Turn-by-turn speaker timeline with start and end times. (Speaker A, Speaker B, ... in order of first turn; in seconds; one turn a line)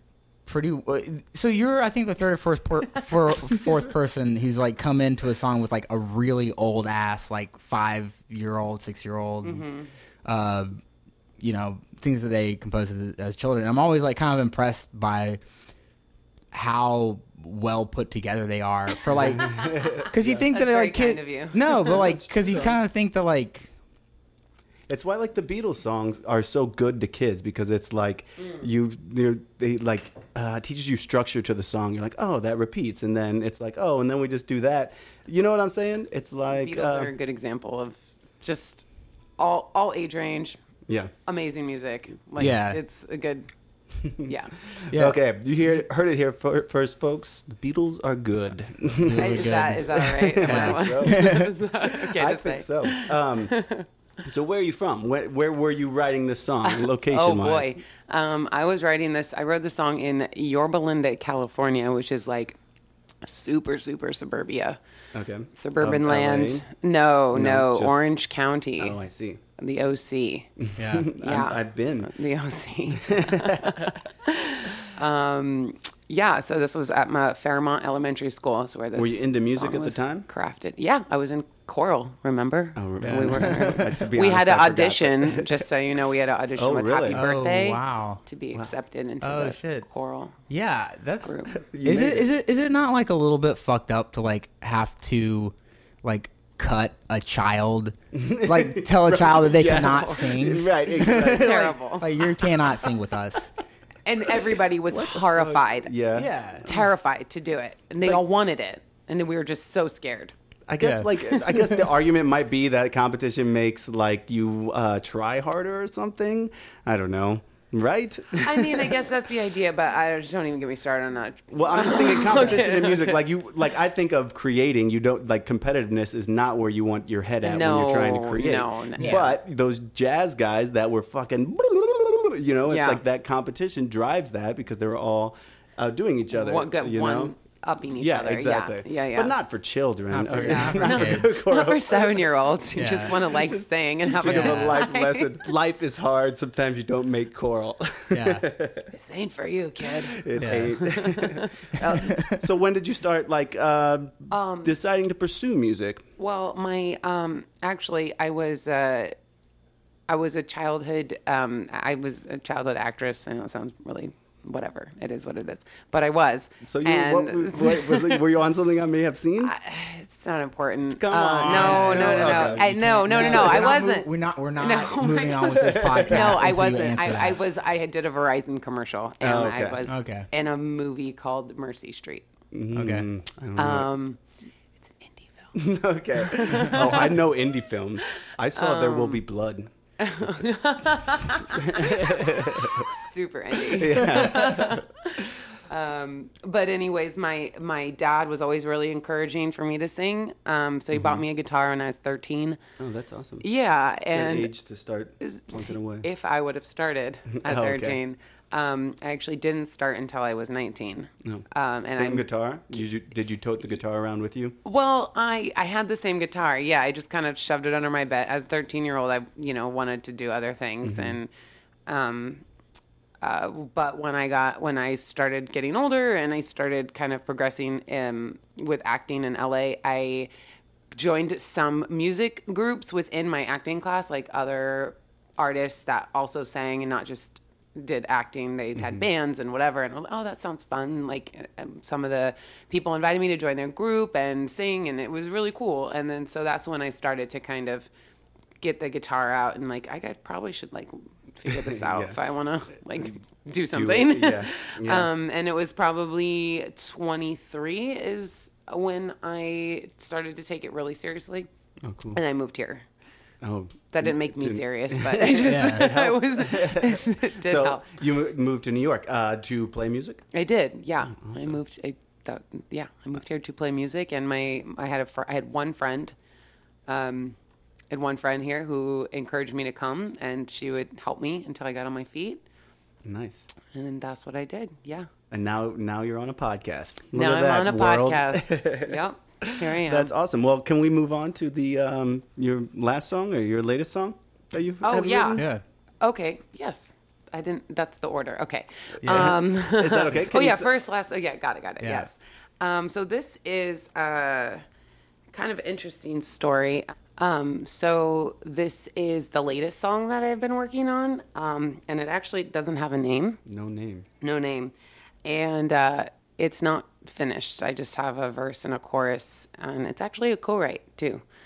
Speaker A: 0.5-9.7
Speaker B: 9.4-9.9
Speaker A: 10.2-10.8
Speaker A: 11.4-15.4
Speaker A: 16.5-23.7
Speaker C: 19.1-20.5
Speaker B: 19.5-22.0
Speaker C: 21.9-22.8
Speaker C: 24.9-37.1
Speaker B: 36.5-38.9
Speaker B: 39.4-40.6
Speaker C: 40.9-41.1
Speaker B: 41.2-43.5
Speaker A: 42.4-42.8
Speaker B: 44.0-44.6
Speaker C: 44.0-53.6
Speaker A: 44.9-45.2
Speaker A: 49.0-51.5
Speaker B: 49.2-53.9
Speaker C: 54.2-57.8
Speaker B: 56.6-62.6
Speaker B: 63.2-64.8
Speaker C: 65.1-66.7
Speaker B: 65.6-69.0
Speaker C: 67.3-68.0
Speaker C: 68.8-69.4
Speaker B: 69.6-70.5
Speaker C: 70.6-72.1
Speaker A: 70.8-71.1
Speaker B: 71.2-90.4
Speaker C: 73.0-73.9
Speaker C: 78.9-80.3
Speaker C: 82.8-85.7
Speaker A: 83.0-84.0
Speaker C: 86.6-87.2
Speaker A: 87.1-88.2
Speaker A: 89.2-89.9
Speaker A: 90.5-103.5
Speaker B: 91.2-91.6
Speaker C: 91.6-92.3
Speaker C: 98.1-101.6
Speaker B: 101.3-102.1
Speaker B: 104.0-105.9
Speaker C: 104.4-106.8
Speaker A: 106.2-106.7
Speaker B: 106.7-110.3
Speaker C: 110.7-119.0
Speaker A: 110.8-111.9
Speaker B: 118.4-123.2
Speaker C: 121.5-137.3
Speaker B: 127.4-129.3
Speaker A: 129.0-129.3
Speaker B: 132.7-133.0
Speaker B: 136.3-139.3
Speaker C: 138.0-142.3
Speaker A: 140.1-141.3
Speaker B: 140.5-145.4
Speaker A: 142.8-143.3
Speaker C: 143.3-148.9
Speaker A: 144.2-144.8
Speaker A: 148.1-148.5
Speaker B: 148.9-151.8
Speaker C: 150.1-156.1
Speaker A: 150.4-150.8
Speaker A: 152.1-152.3
Speaker B: 154.3-154.8
Speaker B: 156.2-159.2
Speaker B: 160.1-168.2
Speaker C: 166.6-169.5
Speaker B: 169.4-182.3
Speaker C: 171.0-173.8
Speaker A: 171.4-177.4
Speaker C: 175.5-176.9
Speaker C: 179.2-179.8
Speaker A: 179.9-180.3
Speaker C: 182.5-183.9
Speaker A: 182.8-183.1
Speaker B: 183.6-184.2
Speaker B: 184.8-185.6
Speaker C: 185.6-190.4
Speaker B: 186.2-187.2
Speaker B: 188.6-189.2
Speaker B: 190.0-202.6
Speaker C: 191.5-192.9
Speaker C: 193.6-194.9
Speaker C: 202.8-203.5
Speaker B: 203.4-204.5
Speaker C: 204.1-206.1
Speaker B: 205.2-212.3
Speaker C: 207.3-208.0
Speaker C: 211.2-214.6
Speaker B: 214.6-221.3
Speaker C: 220.8-221.2
Speaker B: 221.9-222.4
Speaker B: 223.2-230.3
Speaker B: 230.9-247.9
Speaker C: 238.8-239.1
Speaker B: 248.6-261.5
Speaker C: 251.5-252.2
Speaker C: 253.7-255.1
Speaker C: 261.8-262.2
Speaker B: 262.1-262.9
Speaker C: 263.4-270.2
Speaker B: 263.9-267.9
Speaker A: 265.5-266.0
Speaker B: 270.3-276.2
Speaker C: 271.1-271.6
Speaker B: 276.9-277.4
Speaker B: 277.9-282.4
Speaker C: 283.0-283.5
Speaker B: 283.7-285.1
Speaker C: 285.3-295.5
Speaker B: 287.1-290.1
Speaker B: 294.8-295.4
Speaker A: 295.4-295.6
Speaker B: 296.0-304.6
Speaker C: 298.9-300.7
Speaker A: 299.1-299.4
Speaker A: 301.8-302.1
Speaker B: 305.3-313.4
Speaker C: 313.5-314.1
Speaker B: 314.2-321.2